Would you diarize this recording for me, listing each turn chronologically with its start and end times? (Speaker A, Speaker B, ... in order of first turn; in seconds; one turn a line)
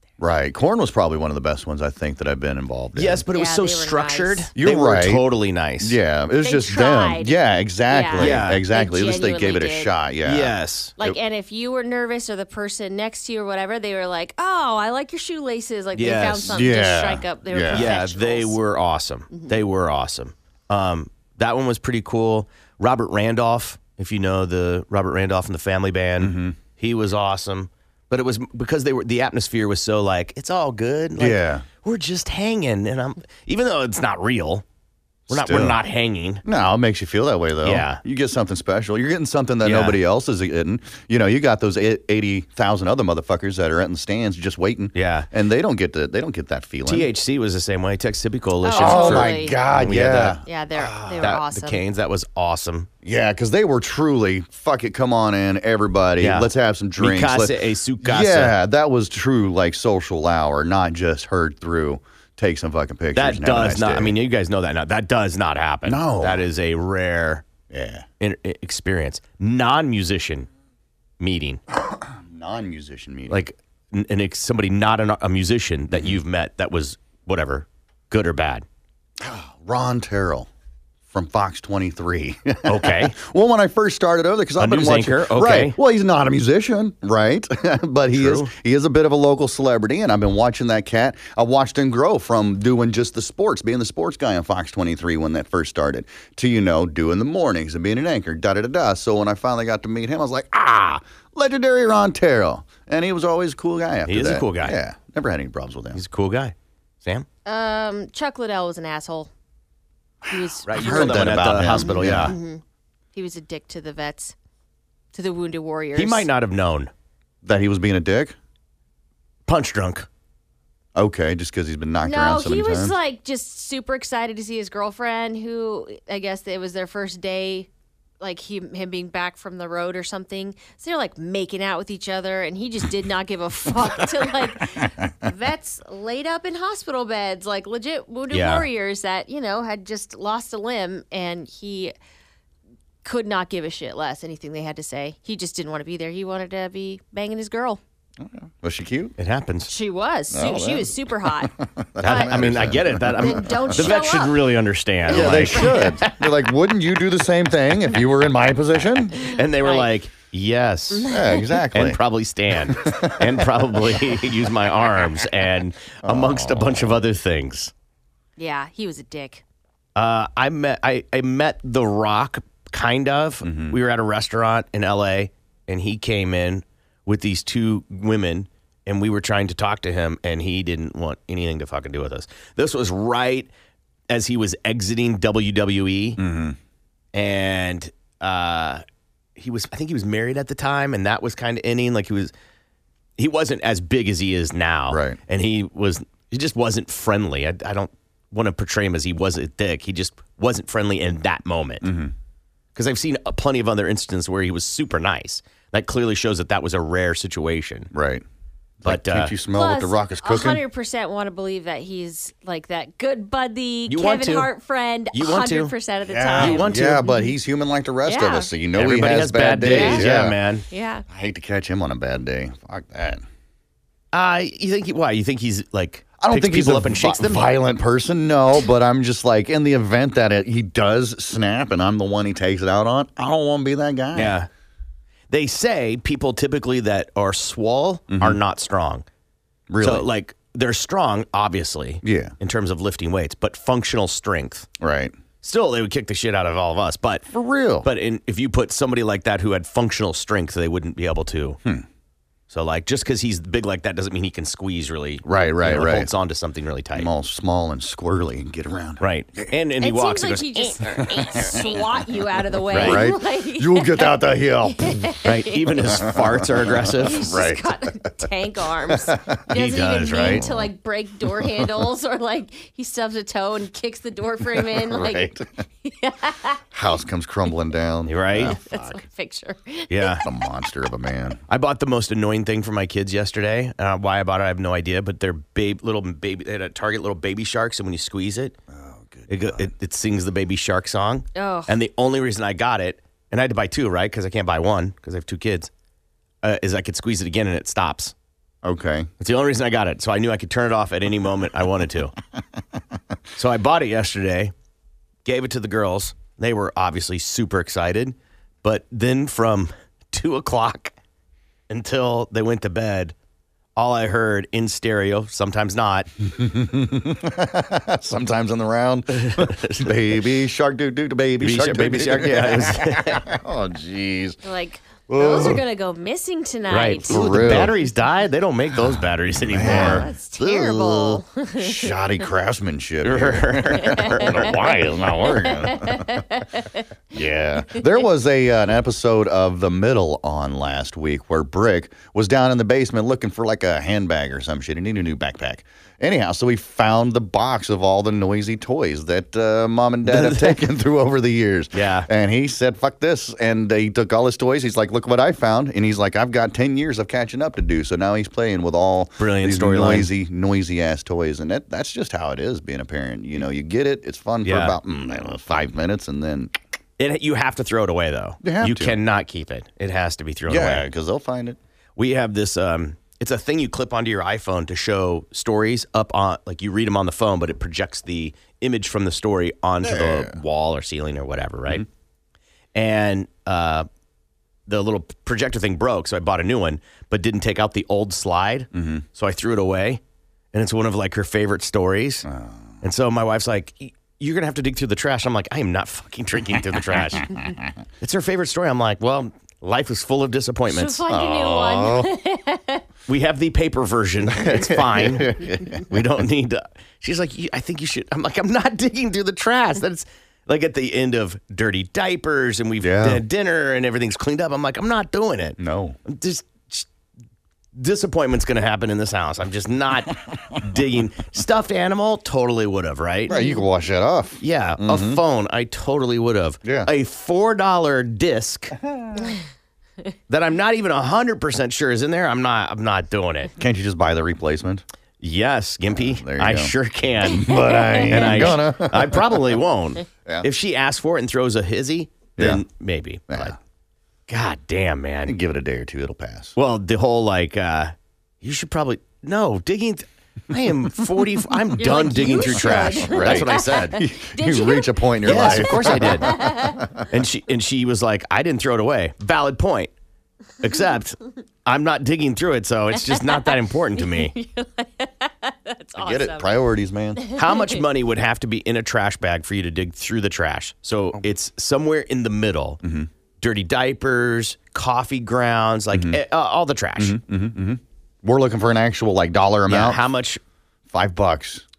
Speaker A: 0.2-3.2
Speaker B: 3.0-6.0
Speaker C: 3.3-4.5
Speaker A: 4.5-5.2
Speaker A: 5.8-11.2
Speaker C: 6.4-7.4
Speaker C: 7.9-9.9
Speaker B: 8.2-8.6
Speaker B: 10.2-10.9
Speaker C: 11.0-18.6
Speaker B: 15.9-16.6
Speaker A: 16.5-17.9
Speaker B: 17.7-34.6
Speaker A: 26.2-26.6
Speaker A: 31.1-31.6
Speaker A: 35.3-35.8
Speaker B: 35.3-36.4
Speaker A: 36.4-47.1
Speaker B: 37.6-38.0
Speaker B: 39.6-40.0
Speaker B: 44.9-45.3
Speaker B: 46.9-50.4
Speaker C: 48.6-49.6
Speaker A: 48.7-51.4
Speaker C: 50.4-51.8
Speaker B: 51.2-52.9
Speaker A: 53.0-64.2
Speaker B: 56.2-58.5
Speaker B: 63.1-67.4
Speaker A: 65.8-66.4
Speaker A: 67.7-68.1
Speaker B: 68.2-70.5
Speaker B: 71.2-71.6
Speaker A: 71.8-73.4
Speaker B: 73.3-78.6
Speaker A: 79.2-80.5
Speaker A: 81.1-106.0
Speaker B: 82.7-83.1
Speaker B: 84.6-85.8
Speaker B: 88.1-88.5
Speaker B: 104.0-104.8
Speaker B: 105.9-107.3
Speaker C: 107.5-109.3
Speaker C: 110.2-111.2
Speaker A: 110.3-112.3
Speaker B: 110.7-112.3
Speaker C: 111.7-112.6
Speaker C: 113.1-114.3
Speaker C: 115.1-116.3
Speaker B: 115.9-116.9
Speaker A: 117.4-118.3
Speaker B: 119.5-120.1
Speaker A: 121.0-122.9
Speaker C: 122.0-127.7
Speaker C: 128.2-141.9
Speaker A: 133.9-134.8
Speaker B: 138.3-138.7
Speaker C: 143.0-147.8
Speaker A: 148.2-149.1
Speaker B: 149.2-149.7
Speaker C: 149.7-152.4
Speaker A: 150.3-153.9
Speaker B: 152.0-156.3
Speaker C: 153.1-154.4
Speaker C: 155.1-156.0
Speaker A: 155.1-159.1
Speaker B: 159.1-161.1
Speaker C: 159.2-159.9
Speaker C: 160.9-161.5
Speaker A: 161.1-162.0
Speaker B: 161.7-167.7
Speaker A: 162.7-164.3
Speaker A: 166.1-167.0
Speaker C: 168.4-169.4
Speaker B: 169.9-183.5
Speaker A: 173.4-173.8
Speaker B: 184.1-186.2
Speaker A: 186.2-186.6
Speaker B: 187.1-188.8
Speaker B: 189.3-192.3
Speaker B: 193.2-201.9
Speaker A: 194.9-195.2
Speaker A: 201.8-202.1
Speaker B: 202.7-207.9
Speaker A: 207.9-208.2
Speaker A: 208.8-210.6
Speaker B: 208.8-209.3
Speaker C: 209.5-217.3
Speaker B: 213.9-214.5
Speaker B: 215.1-215.7
Speaker A: 216.1-220.4
Speaker B: 216.3-217.1
Speaker C: 218.0-218.5
Speaker B: 218.7-220.7
Speaker C: 219.7-220.0
Speaker C: 220.7-221.0
Speaker A: 221.1-223.2
Speaker B: 224.1-227.5
Speaker A: 226.2-234.4
Speaker B: 234.1-234.5
Speaker B: 235.3-239.0
Speaker A: 238.1-238.4
Speaker A: 239.7-240.1
Speaker B: 239.8-244.7
Speaker A: 242.0-242.3
Speaker A: 244.8-245.1
Speaker B: 245.4-247.3
Speaker A: 247.3-247.9
Speaker B: 247.8-251.6
Speaker B: 252.5-257.1
Speaker A: 255.2-256.1
Speaker A: 256.9-259.5
Speaker B: 259.0-261.0
Speaker C: 259.8-265.9
Speaker A: 261.0-262.0
Speaker A: 262.7-265.2
Speaker B: 262.7-263.1
Speaker B: 265.2-267.4
Speaker A: 265.8-267.7
Speaker C: 267.0-275.3
Speaker A: 268.9-269.4
Speaker B: 269.5-270.4
Speaker A: 270.1-270.7
Speaker A: 271.3-271.8
Speaker A: 274.4-275.4
Speaker C: 275.8-276.6
Speaker A: 276.7-279.1
Speaker B: 278.1-278.6
Speaker C: 278.4-280.2
Speaker B: 279.9-280.2
Speaker A: 280.2-281.4
Speaker B: 281.5-288.5
Speaker A: 288.7-289.7
Speaker B: 289.3-295.7
Speaker C: 291.3-291.7
Speaker B: 296.4-298.1
Speaker A: 298.6-299.1
Speaker B: 299.2-302.1
Speaker B: 303.4-304.5
Speaker B: 305.2-310.9
Speaker B: 311.7-313.1
Speaker B: 313.8-316.1
Speaker A: 316.3-324.4
Speaker B: 319.1-319.9
Speaker B: 321.4-323.3
Speaker C: 324.4-327.6
Speaker A: 325.1-325.6
Speaker B: 326.7-330.1
Speaker A: 327.1-327.8
Speaker A: 328.8-336.2
Speaker C: 329.6-331.9
Speaker B: 333.0-334.6
Speaker C: 334.0-334.3
Speaker C: 335.2-336.8
Speaker A: 337.1-366.5
Speaker B: 350.1-350.7
Speaker B: 351.7-352.1
Speaker B: 359.2-360.1
Speaker B: 364.4-364.8
Speaker B: 367.0-370.9
Speaker A: 368.4-369.0
Speaker A: 370.5-371.6
Speaker B: 372.0-381.9
Speaker A: 379.8-380.4
Speaker B: 382.7-383.9
Speaker B: 384.7-390.0
Speaker A: 388.7-389.0
Speaker B: 390.5-392.3
Speaker A: 392.2-392.8
Speaker B: 392.8-397.4
Speaker A: 396.7-397.7
Speaker B: 398.0-401.0
Speaker C: 400.7-402.8
Speaker A: 401.1-402.1
Speaker B: 403.1-416.9
Speaker A: 404.3-406.0
Speaker A: 412.8-413.2
Speaker A: 415.6-416.0
Speaker B: 417.7-423.4
Speaker A: 423.3-425.2
Speaker C: 423.3-423.6
Speaker B: 424.4-428.8
Speaker A: 426.6-426.9
Speaker A: 428.8-429.4
Speaker B: 430.3-433.5
Speaker A: 433.6-434.8
Speaker B: 435.2-443.6
Speaker A: 435.9-439.6
Speaker C: 437.5-438.2
Speaker A: 442.4-442.6
Speaker A: 443.3-443.6
Speaker B: 444.3-445.4
Speaker A: 445.2-446.6
Speaker B: 446.6-454.0
Speaker C: 451.8-456.8
Speaker A: 452.4-457.0
Speaker B: 455.2-456.4
Speaker B: 457.1-459.9
Speaker B: 460.6-464.3
Speaker C: 463.1-466.4
Speaker A: 466.0-467.2
Speaker B: 467.4-472.8
Speaker A: 472.8-473.1
Speaker B: 473.4-477.2
Speaker A: 475.9-476.2
Speaker A: 477.0-480.0
Speaker B: 479.7-480.4
Speaker A: 480.9-481.6